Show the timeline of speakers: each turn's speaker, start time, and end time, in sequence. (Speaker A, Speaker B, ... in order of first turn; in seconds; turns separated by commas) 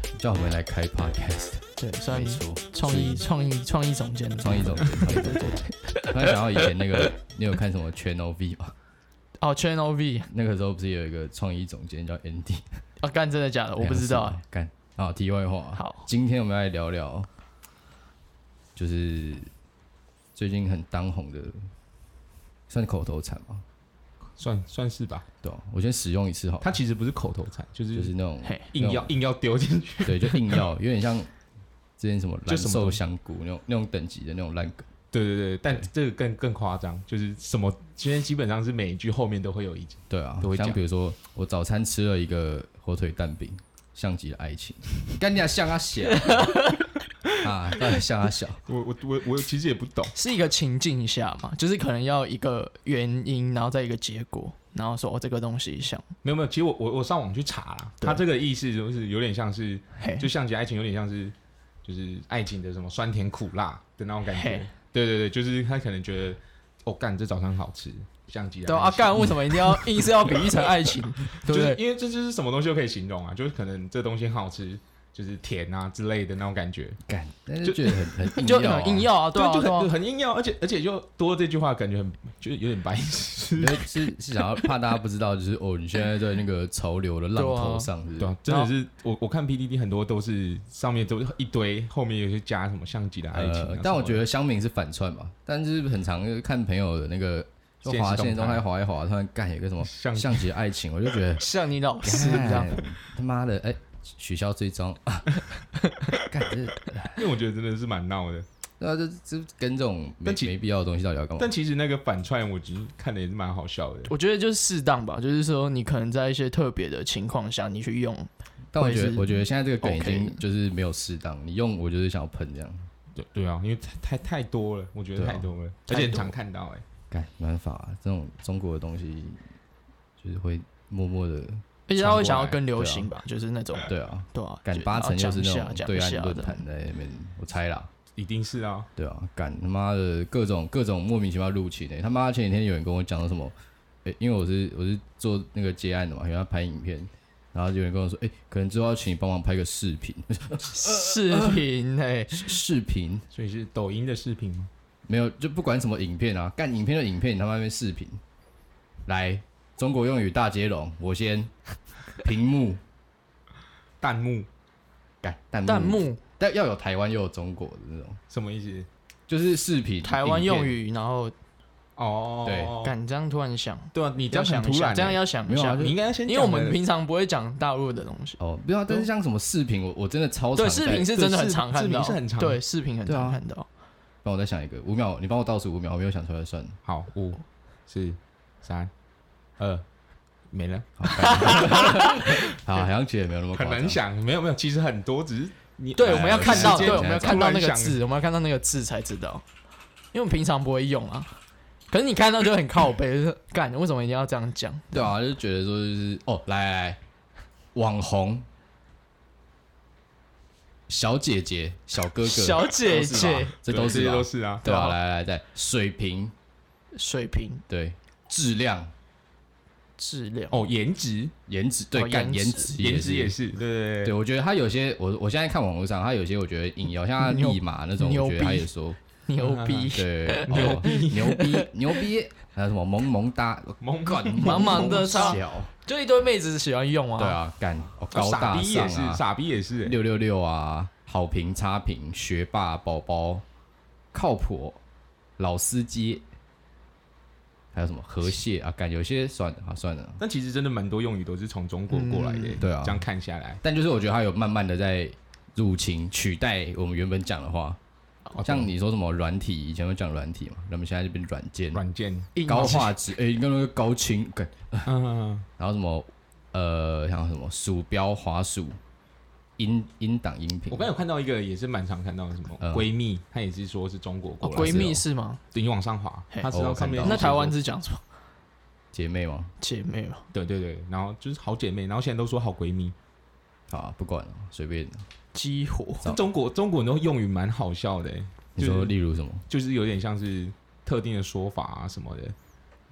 Speaker A: 0.1-3.2, Speaker B: 1.8-6.1, Speaker A: 4.4-5.5, Speaker A: 6.1-8.7, Speaker B: 9.4-10.3, Speaker A: 10.3-12.7, Speaker B: 13.0-14.4, Speaker A: 13.8-17.3, Speaker B: 15.8-16.1, Speaker A: 18.8-19.5, Speaker A: 20.4-21.6, Speaker A: 22.7-23.6, Speaker C: 24.4-25.2, Speaker A: 25.4-26.7, Speaker C: 26.6-28.1, Speaker A: 27.9-29.1, Speaker C: 28.7-30.7, Speaker A: 30.0-31.3, Speaker A: 32.0-34.9, Speaker C: 32.5-33.0, Speaker C: 35.1-40.8, Speaker A: 40.1-46.6, Speaker B: 46.2-46.9, Speaker A: 47.4-48.6, Speaker C: 48.7-50.1, Speaker B: 50.1-56.1, Speaker C: 56.2-70.7, Speaker B: 60.0-60.3, Speaker B: 64.3-64.7, Speaker B: 68.7-71.8, Speaker C: 71.3-77.0, Speaker A: 77.1-79.1, Speaker C: 77.6-78.1, Speaker B: 78.3-79.9, Speaker C: 79.3-84.0, Speaker A: 83.6-88.3, Speaker B: 87.4-87.9, Speaker C: 88.2-94.2, Speaker A: 93.3-101.4, Speaker C: 97.8-98.6, Speaker C: 99.8-100.5, Speaker B: 101.4-102.8, Speaker A: 102.0-105.4, Speaker A: 106.2-107.3, Speaker C: 107.1-108.5, Speaker A: 108.8-111.5, Speaker C: 110.2-110.5, Speaker C: 111.4-114.1, Speaker B: 114.1-120.4, Speaker A: 118.7-122.9, Speaker C: 123.2-126.8, Speaker A: 125.2-125.5, Speaker B: 125.9-126.3, Speaker A: 127.1-129.4, Speaker A: 130.2-131.6, Speaker B: 131.9-136.6, Speaker C: 132.0-132.6, Speaker A: 132.7-133.1, Speaker A: 133.9-137.9, Speaker C: 138.2-138.9, Speaker A: 139.0-143.5, Speaker A: 144.1-151.7, Speaker B: 150.7-152.6, Speaker A: 152.3-153.3, Speaker C: 153.3-154.7, Speaker A: 155.1-158.2, Speaker A: 159.1-161.5, Speaker A: 162.2-162.8, Speaker C: 164.0-164.5, Speaker A: 165.2-168.2, Speaker B: 165.7-166.2, Speaker C: 168.3-168.9, Speaker A: 169.3-170.8, Speaker B: 170.0-171.3, Speaker C: 172.0-172.9, Speaker A: 172.4-172.8, Speaker B: 172.8-179.0, Speaker C: 173.9-176.8, Speaker A: 175.5-176.0, Speaker A: 178.4-181.1, Speaker B: 180.6-183.7, Speaker C: 181.1-182.6, Speaker A: 183.1-183.4, Speaker A: 184.2-186.8, Speaker C: 186.8-188.9, Speaker C: 189.6-189.8, Speaker C: 190.5-192.6, Speaker A: 191.0-194.0, Speaker B: 191.1-192.3, Speaker C: 193.5-198.0, Speaker B: 196.0-199.4, Speaker A: 196.0-197.4, Speaker B: 200.1-201.3, Speaker B: 201.9-205.1, Speaker A: 204.9-207.0, Speaker A: 207.8-208.5, Speaker A: 210.9-216.3, Speaker B: 212.2-213.6, Speaker C: 213.2-214.8, Speaker B: 214.7-214.9, Speaker B: 216.9-217.6, Speaker A: 217.7-218.9, Speaker B: 220.0-220.7, Speaker C: 220.5-221.3, Speaker A: 221.5-223.4, Speaker B: 221.9-222.7, Speaker C: 222.8-224.2, Speaker A: 224.0-229.0, Speaker B: 227.2-228.7, Speaker B: 229.3-231.7, Speaker C: 229.4-229.9, Speaker A: 229.9-235.7, Speaker C: 230.5-231.3, Speaker C: 233.8-235.1, Speaker B: 234.4-237.4, Speaker A: 237.2-239.2, Speaker C: 238.1-240.0, Speaker A: 239.8-243.4, Speaker A: 244.1-244.8, Speaker A: 245.4-246.2, Speaker A: 247.7-250.2, Speaker C: 250.2-253.6, Speaker B: 251.9-252.6, Speaker A: 252.6-253.1, Speaker A: 253.6-257.8, Speaker C: 258.3-258.7, Speaker A: 258.4-261.8, Speaker C: 261.7-262.8, Speaker B: 262.4-262.9, Speaker A: 262.5-264.9, Speaker C: 264.9-265.5, Speaker A: 265.6-268.8, Speaker A: 269.6-270.9, Speaker C: 270.7-275.0, Speaker A: 272.6-272.9, Speaker B: 274.4-275.4, Speaker A: 274.6-275.0, Speaker C: 275.5-277.6, Speaker A: 276.5-277.3, Speaker B: 277.0-278.0, Speaker A: 278.9-279.5, Speaker B: 279.6-280.2, Speaker C: 280.3-282.9, Speaker A: 283.7-285.1, Speaker B: 285.3-286.1, Speaker C: 286.0-288.9, Speaker A: 288.6-289.4, Speaker C: 289.5-292.4